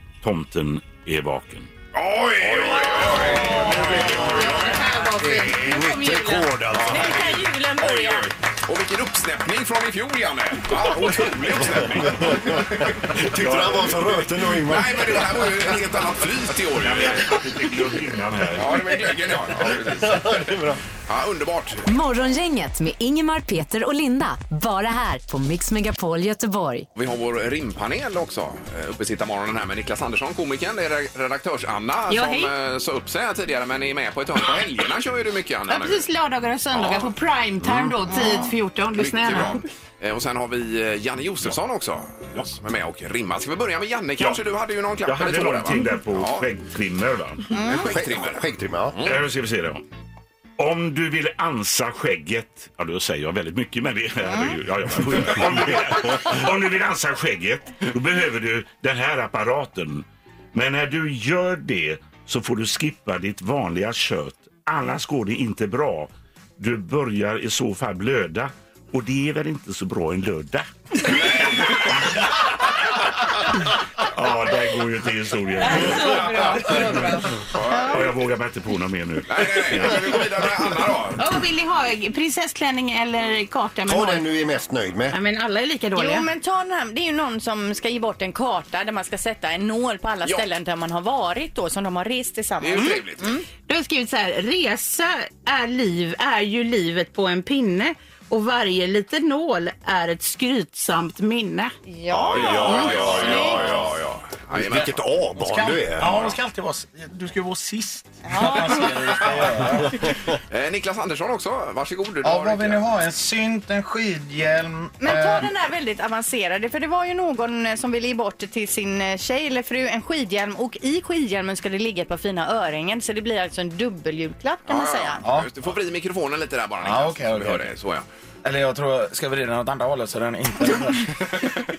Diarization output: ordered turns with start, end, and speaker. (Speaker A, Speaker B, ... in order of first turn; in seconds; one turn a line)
Speaker A: 0.2-1.7
Speaker B: 1.9-4.8
Speaker C: 2.4-4.0
Speaker D: 4.2-8.2
Speaker C: 5.2-7.4
Speaker B: 6.7-13.0
Speaker E: 7.1-8.2
Speaker C: 11.6-15.8
Speaker A: 13.4-13.9
Speaker B: 14.5-17.4
Speaker A: 16.8-18.9
Speaker B: 18.6-20.6
Speaker C: 19.7-20.8
Speaker B: 21.1-21.9
Speaker F: 21.9-26.9
Speaker B: 26.9-36.1
Speaker D: 32.1-32.5
Speaker D: 35.7-39.6
Speaker B: 36.7-37.1
Speaker E: 38.1-38.5
Speaker B: 39.0-46.5
Speaker A: 45.0-47.5
Speaker E: 47.5-47.9
Speaker B: 47.5-49.2
Speaker C: 47.7-49.1
Speaker A: 49.0-49.8
Speaker A: 50.6-72.5
Speaker E: 54.2-54.5
Speaker B: 71.1-71.9
Speaker A: 74.0-77.1
Speaker D: 75.7-77.3
Speaker B: 77.5-78.2
Speaker E: 77.6-78.0
Speaker A: 77.8-80.7
Speaker B: 79.3-81.3
Speaker D: 81.2-84.3
Speaker C: 83.9-85.2
Speaker D: 85.1-86.3
Speaker E: 86.0-93.4
Speaker B: 92.6-93.3
Speaker D: 93.7-101.7
Speaker E: 101.9-103.9
Speaker B: 102.2-105.0
Speaker C: 102.3-103.6
Speaker C: 104.5-106.2
Speaker G: 105.4-110.1
Speaker E: 108.2-108.9
Speaker B: 110.5-112.9
Speaker G: 112.2-115.5
Speaker E: 115.0-125.2
Speaker B: 124.7-128.1
Speaker G: 125.2-125.5
Speaker G: 126.8-127.7
Speaker G: 128.4-131.5